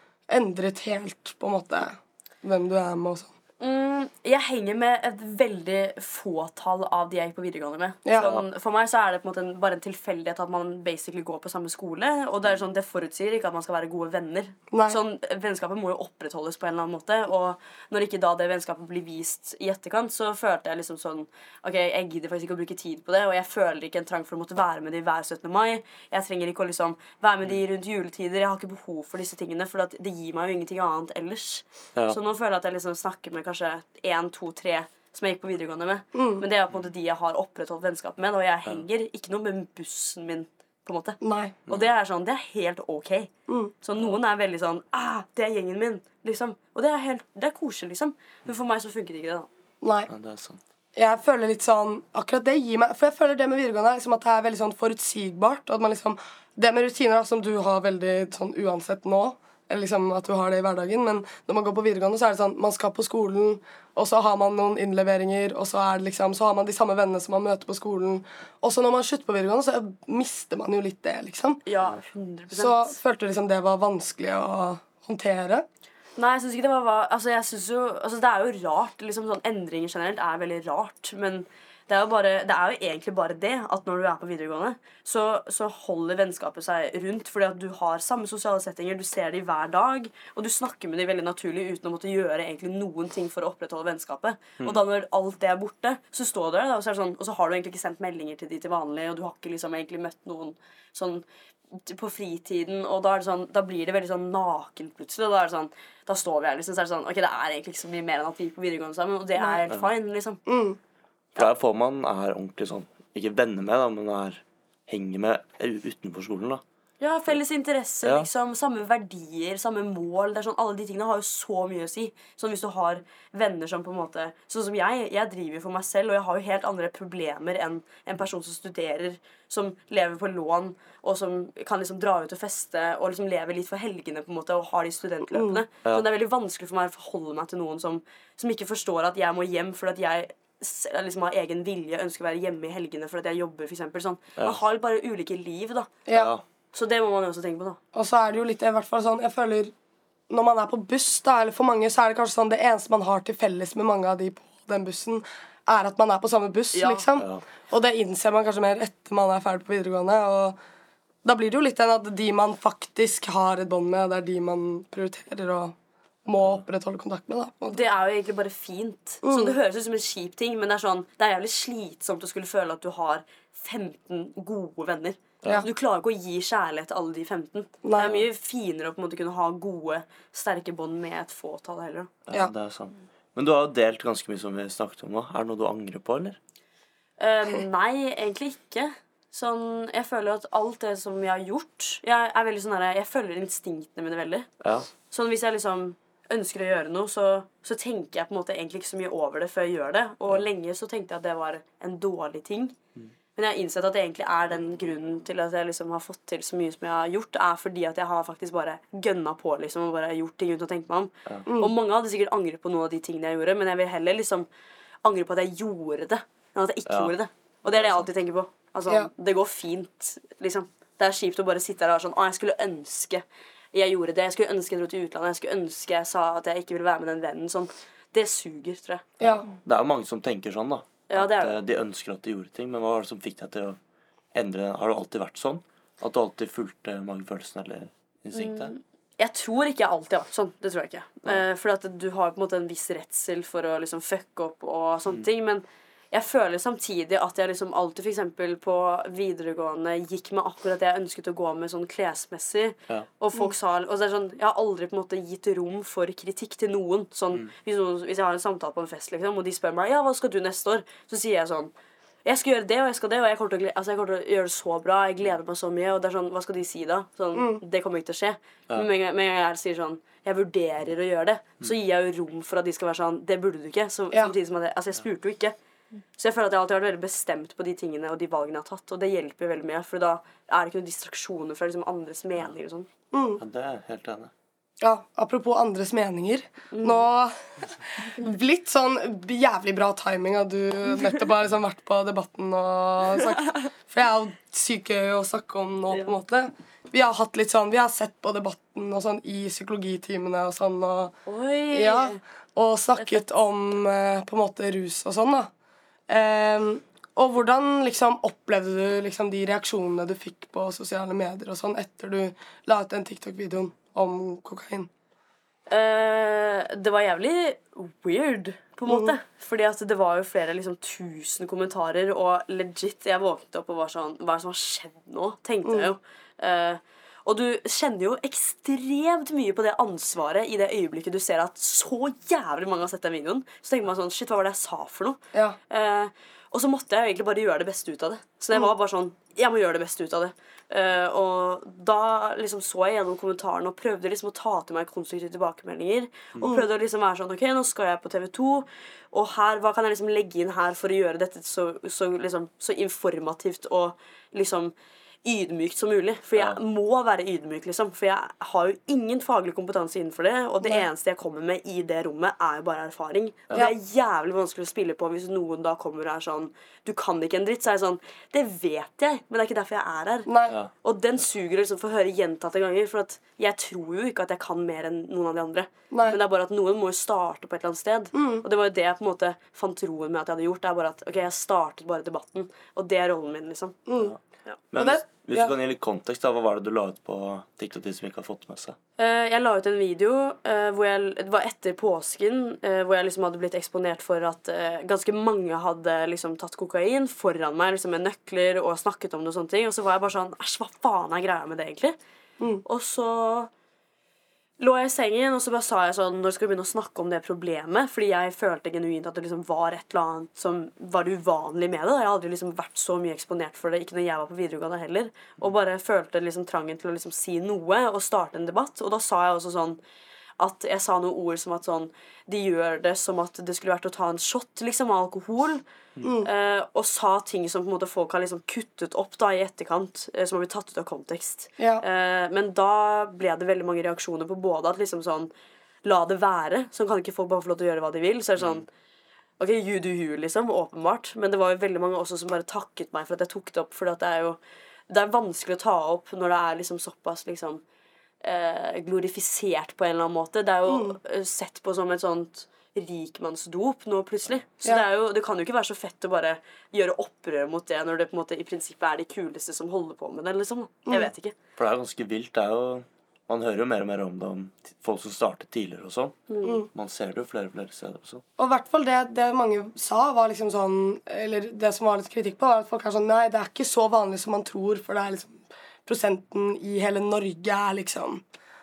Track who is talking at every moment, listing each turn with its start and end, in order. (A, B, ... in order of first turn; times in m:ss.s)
0:00.3-0:03.3 A
0:03.6-0:43.3 B
0:08.0-0:08.3 A
0:08.2-0:08.4 C
0:14.7-0:15.0 A
0:36.1-0:36.4 A
0:41.2-0:41.6 A
0:43.5-0:43.7 A
0:43.8-0:49.5 B
0:49.8-0:50.1 A
0:50.1-0:50.6 C
0:50.9-1:11.6 A
1:11.6-1:13.0 B
1:12.5-1:15.6 A
1:16.2-1:50.4 B
1:50.5-1:50.8 A
1:51.3-1:56.6 C
1:57.0-2:25.9 B
1:58.0-1:58.3 C
2:15.3-2:15.6 A
2:26.1-2:26.3 A
2:26.1-2:26.4 C
2:26.7-2:27.8 B
2:27.9-2:29.7 A
2:30.3-2:40.6 A
2:36.7-2:37.0 B
2:41.2-2:47.8 A
2:47.7-3:02.1 B
2:49.2-2:49.5 A
2:57.8-2:58.1 A
3:02.3-3:06.4 C
3:07.2-3:14.5 B
3:14.6-3:14.9 C
3:15.1-3:22.7 B
3:23.4-3:34.5 B
3:31.4-3:31.7 A
3:35.0-3:49.1 B
3:36.9-3:37.1 C
3:49.2-3:49.4 A
3:49.2-3:53.8 C
3:51.1-3:51.6 B
3:54.3-3:58.7 C
3:58.3-4:21.7 B
4:22.2-4:35.6 B
4:27.3-4:27.6 A
4:36.2-4:42.9 B
4:43.1-4:43.4 A
4:43.4-4:44.3 C
4:44.8-5:01.1 A
4:46.7-4:47.0 B
5:01.2-5:02.2 B
5:01.7-5:05.5 A
5:06.1-5:14.9 A
5:15.7-6:10.3 B
5:18.9-5:19.2 A
6:10.3-6:10.6 A
6:10.8-6:23.8 B
6:15.9-6:16.2 A
6:18.1-6:18.4 A
6:23.8-6:24.1 A
6:24.7-6:28.8 C
6:24.7-6:25.5 A
6:29.0-6:42.0 B
6:42.6-6:43.5 B
6:44.6-6:59.8 B
7:00.4-7:05.6 B
7:06.0-7:06.3 A
7:06.2-7:15.3 B
7:11.6-7:11.8 A
7:15.8-7:18.7 B
7:18.4-7:18.6 C
7:19.4-7:27.6 B
7:28.2-7:41.4 B
7:30.7-7:31.0 A
7:41.6-7:46.2 C
7:46.3-7:46.6 B
7:46.4-7:46.7 A
7:46.7-7:48.2 C
7:48.4-7:58.2 A